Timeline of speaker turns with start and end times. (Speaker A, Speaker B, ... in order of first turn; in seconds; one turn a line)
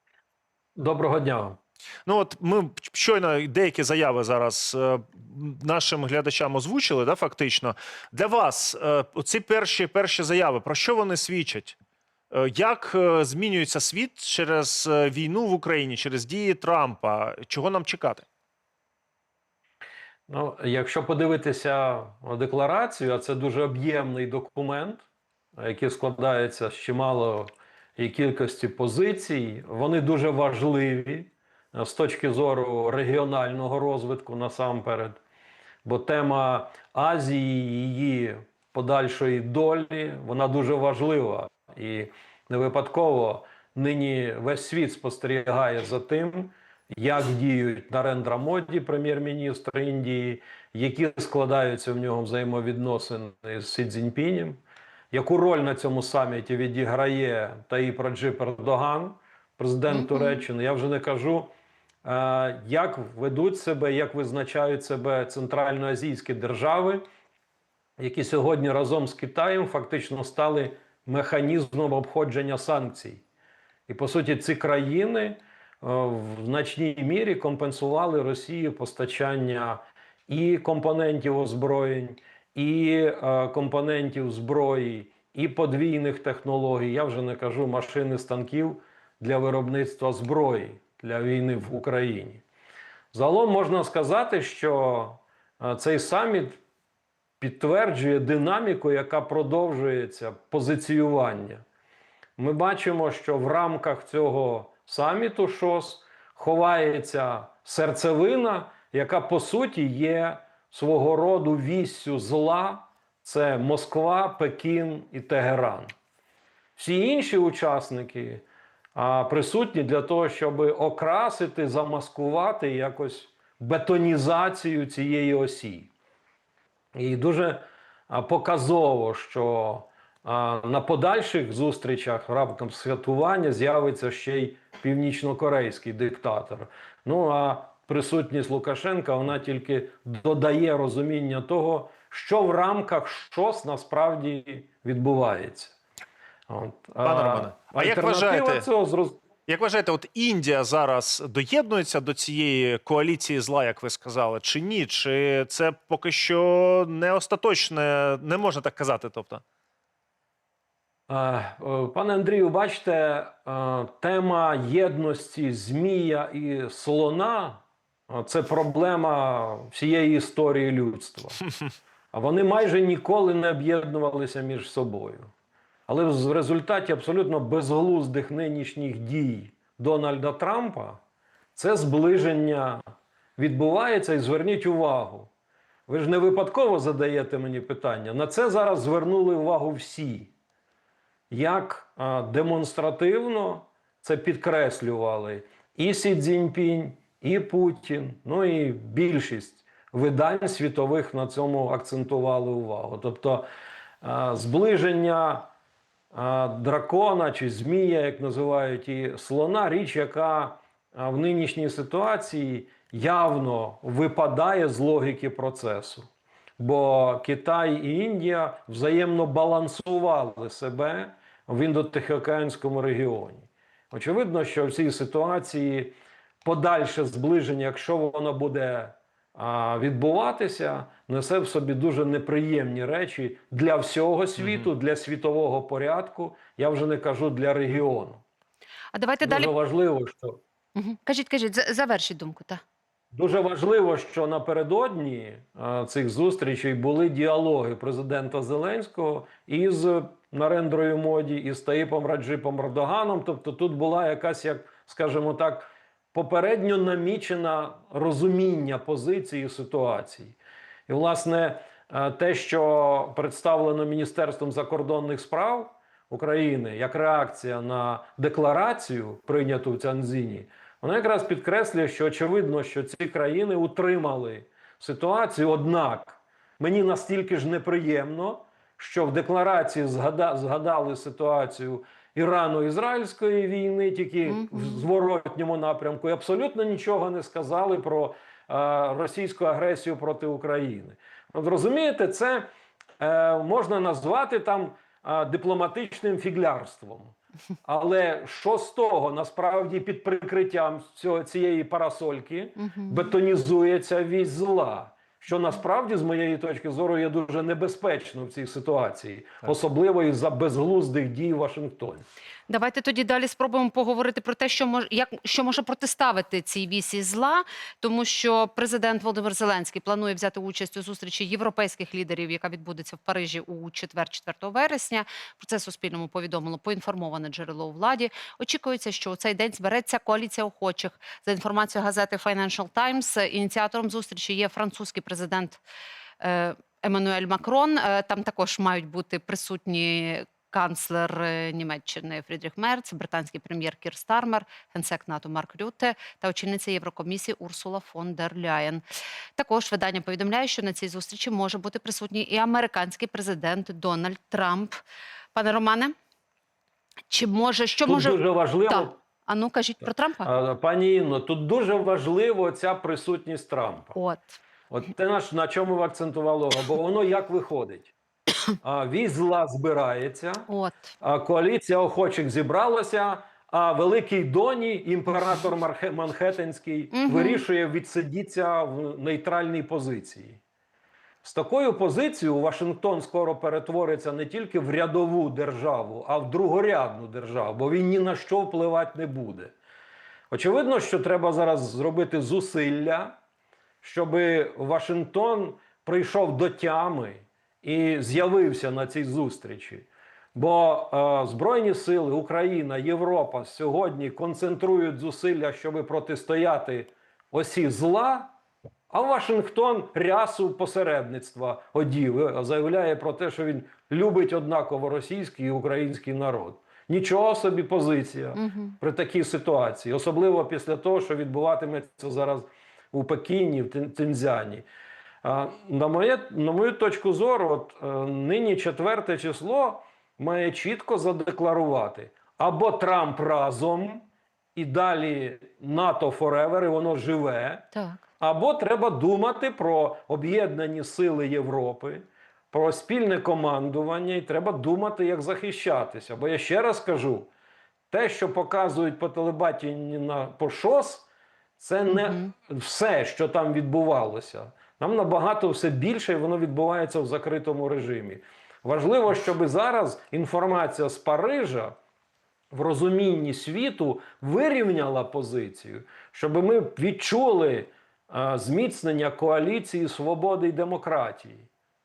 Speaker A: 0.8-1.6
Speaker B: 2.0-11.8
Speaker B: 12.3-18.3
Speaker A: 20.3-25.0
Speaker A: 25.6-35.2
Speaker A: 35.8-54.6
Speaker A: 55.1-61.5
Speaker C: 59.9-60.4
Speaker A: 62.0-67.0
Speaker A: 68.0-73.2
Speaker A: 73.9-92.4
Speaker A: 93.1-96.6
Speaker A: 97.4-101.6
Speaker A: 102.4-115.9
Speaker A: 116.8-118.4
Speaker A: 118.9-125.9
Speaker A: 126.9-145.8
Speaker A: 146.5-149.2
Speaker B: 147.0-148.6
Speaker B: 149.4-159.4
Speaker A: 161.1-171.4
Speaker A: 172.1-175.3
Speaker A: 175.9-181.0
Speaker A: 181.6-182.8
Speaker A: 183.4-185.3
Speaker A: 185.9-190.3
Speaker A: 191.3-203.5
Speaker A: 204.0-205.5
Speaker A: 206.1-216.1
Speaker A: 216.6-238.2
Speaker C: 238.9-239.5
Speaker A: 239.2-240.4
Speaker C: 240.8-242.6
Speaker A: 243.1-312.1
Speaker C: 284.3-284.8
Speaker C: 302.6-303.1
Speaker C: 312.5-335.6
Speaker C: 336.2-348.8
Speaker C: 349.4-354.8
Speaker C: 355.3-355.9
Speaker C: 357.1-360.3
Speaker A: 357.9-359.0
Speaker A: 360.2-364.0
Speaker C: 363.9-364.4
Speaker A: 364.7-367.9
Speaker A: 368.6-370.5
Speaker C: 370.5-370.9
Speaker A: 371.0-380.4
Speaker C: 376.9-377.4
Speaker A: 381.2-389.5
Speaker A: 390.3-393.1
Speaker A: 393.8-408.3
Speaker A: 408.9-424.6
Speaker C: 418.4-418.8
Speaker A: 425.2-437.7
Speaker C: 437.7-438.0
Speaker A: 438.2-447.3
Speaker A: 447.9-451.1
Speaker A: 451.6-461.8
Speaker C: 451.9-452.2
Speaker A: 462.5-471.4